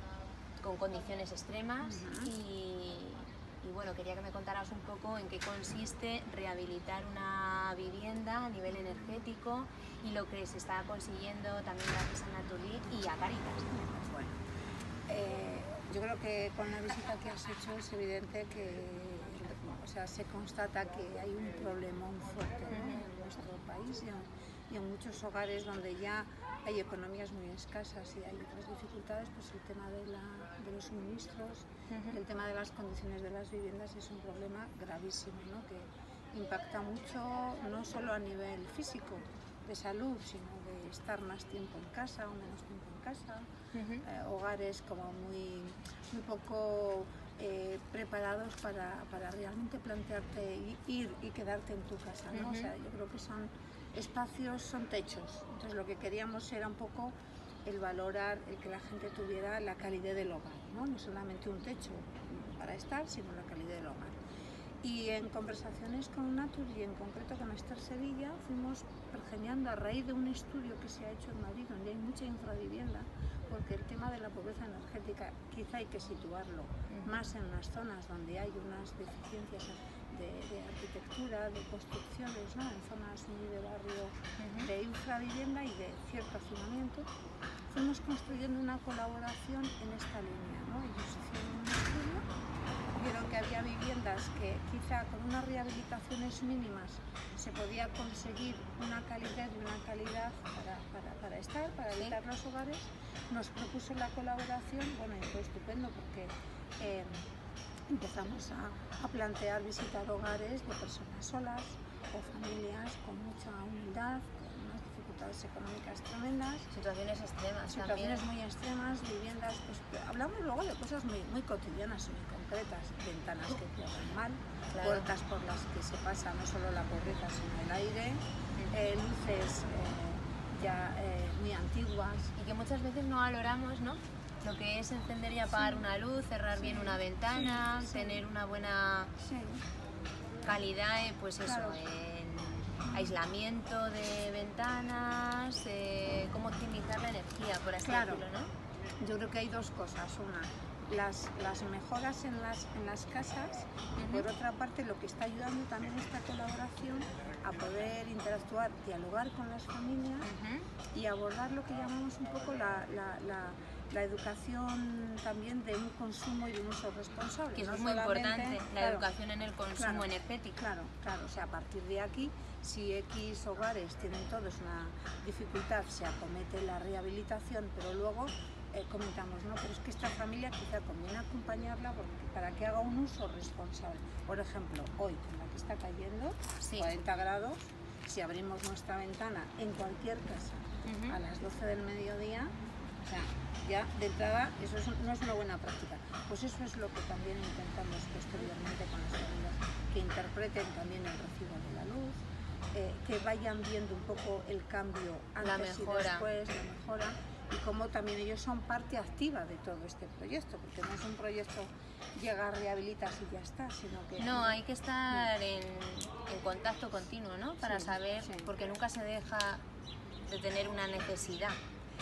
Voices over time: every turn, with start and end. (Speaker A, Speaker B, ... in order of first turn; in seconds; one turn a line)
Speaker A: 0.6-14.3
Speaker B: 1.8-2.3
Speaker B: 15.1-43.5
Speaker A: 22.7-23.1
Speaker A: 31.9-32.2
Speaker A: 43.7-44.0
Speaker B: 44.0-57.1
Speaker A: 52.3-52.7
Speaker B: 57.7-64.2
Speaker B: 64.8-87.1
Speaker A: 76.9-77.2
Speaker A: 84.4-84.7
Speaker B: 87.7-92.2
Speaker B: 93.0-107.2
Speaker B: 107.9-116.7
Speaker A: 116.7-118.2
Speaker B: 117.7-132.3
Speaker A: 124.7-125.1
Speaker A: 128.6-128.8
Speaker A: 132.4-139.1
Speaker B: 135.5-135.8
Speaker B: 136.6-138.2
Speaker B: 139.2-139.6
Speaker A: 140.4-148.5
Speaker B: 141.4-141.8
Speaker B: 142.9-143.1
Speaker B: 147.8-148.3
Speaker B: 149.0-160.3
Speaker A: 154.0-154.3
Speaker A: 160.2-160.7
Speaker B: 160.9-169.1
Speaker A: 167.6-170.6
Speaker B: 169.8-214.6
Speaker A: 186.6-186.9
Speaker A: 190.8-191.2
Speaker A: 205.4-206.3
Speaker A: 214.2-219.6
Speaker B: 217.6-218.5
Speaker A: 220.3-221.6